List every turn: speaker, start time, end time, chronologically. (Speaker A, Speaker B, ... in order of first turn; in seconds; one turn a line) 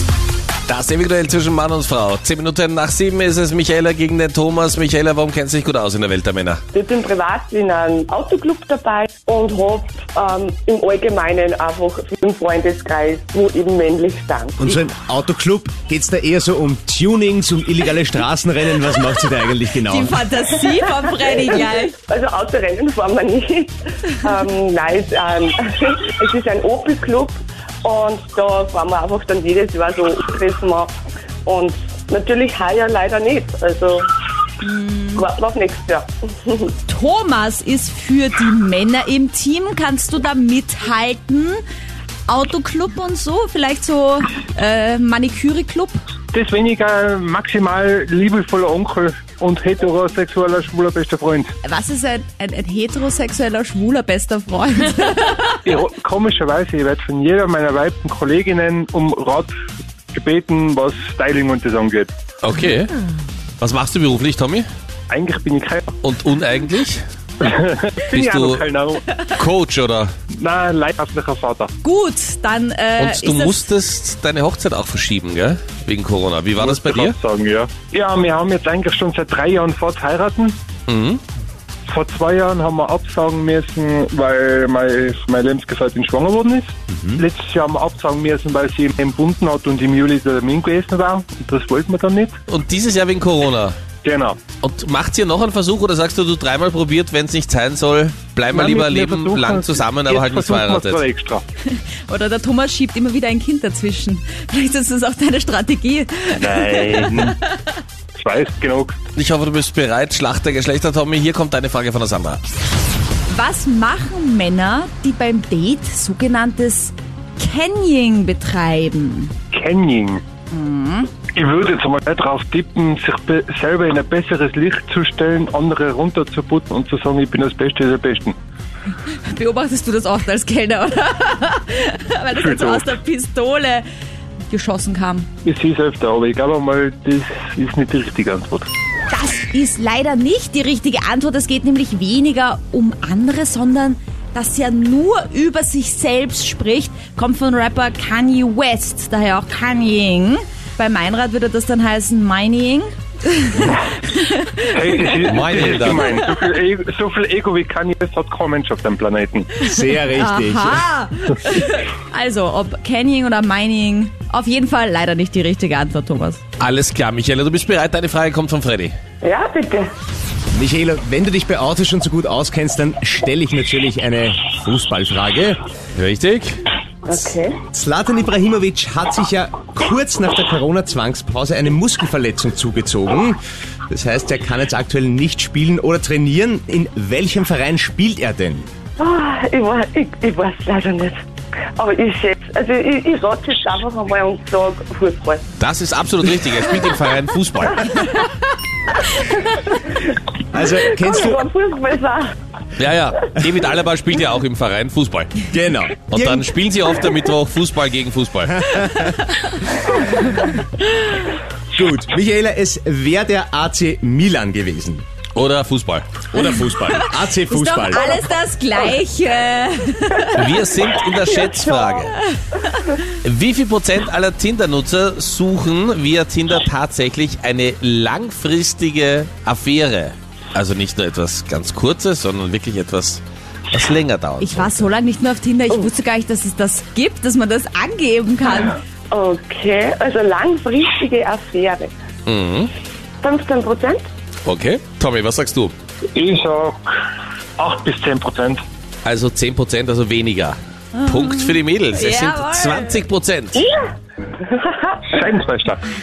Speaker A: 0.7-6.6
Speaker B: 6.7-14.6
Speaker C: 14.6-20.2
Speaker D: 19.7-21.9
Speaker B: 20.9-30.9
Speaker B: 31.4-34.1
Speaker D: 34.6-35.2
Speaker B: 35.1-36.7
Speaker D: 36.9-41.6
Speaker D: 42.3-46.0
Speaker E: 46.3-51.5
Speaker D: 51.6-55.6
Speaker E: 55.6-59.5
Speaker E: 60.1-62.1
Speaker A: 62.4-62.9
Speaker A: 63.6-64.7
Speaker E: 65.1-65.9
Speaker A: 66.0-67.0
Speaker E: 67.4-69.1
Speaker A: 68.1-68.7
Speaker A: 69.3-70.1
Speaker E: 70.3-71.7
Speaker D: 71.8-73.7
Speaker A: 73.0-77.2
Speaker E: 76.6-80.5
Speaker A: 80.9-81.2
Speaker E: 81.9-92.3
Speaker A: 92.5-93.8
Speaker E: 94.0-94.4
Speaker A: 94.6-101.0
Speaker E: 98.5-101.4
Speaker D: 101.7-107.4
Speaker E: 106.3-107.4
Speaker E: 108.2-109.0
Speaker A: 109.2-112.4
Speaker D: 113.3-119.3
Speaker E: 119.5-120.2
Speaker D: 120.5-121.1
Speaker E: 121.3-128.3
Speaker D: 129.2-133.8
Speaker E: 132.3-132.9
Speaker D: 134.5-135.3
Speaker E: 135.4-138.7
Speaker D: 139.1-155.2
Speaker E: 154.7-159.5
Speaker A: 155.2-156.1
Speaker C: 159.6-160.8
Speaker D: 160.1-166.4
Speaker A: 166.6-168.9
Speaker B: 169.2-169.9
Speaker C: 170.5-175.6
Speaker A: 175.9-176.6
Speaker B: 177.1-177.6
Speaker C: 177.7-183.4
Speaker C: 183.9-188.7
Speaker B: 189.0-191.2
Speaker B: 191.8-195.4
Speaker A: 195.6-197.9
Speaker B: 199.1-200.1
Speaker C: 200.5-201.4
Speaker B: 200.7-202.3
Speaker A: 202.8-205.3
Speaker C: 205.5-206.5
Speaker A: 206.1-208.7
Speaker C: 208.5-209.1
Speaker D: 208.9-210.5
Speaker C: 211.7-215.1
Speaker A: 215.3-216.2
Speaker C: 216.3-218.1
Speaker D: 216.3-220.6
Speaker A: 220.3-222.2
Speaker B: 221.4-222.0
Speaker D: 222.1-222.9
Speaker A: 223.2-234.9
Speaker D: 234.4-238.8
Speaker B: 239.1-241.9
Speaker A: 242.2-242.7
Speaker B: 243.2-244.1
Speaker A: 244.4-245.7
Speaker E: 246.1-246.8
Speaker E: 247.6-248.6
Speaker A: 249.0-253.7
Speaker D: 250.9-253.0
Speaker B: 253.6-253.9
Speaker B: 254.4-255.1
Speaker E: 255.0-255.8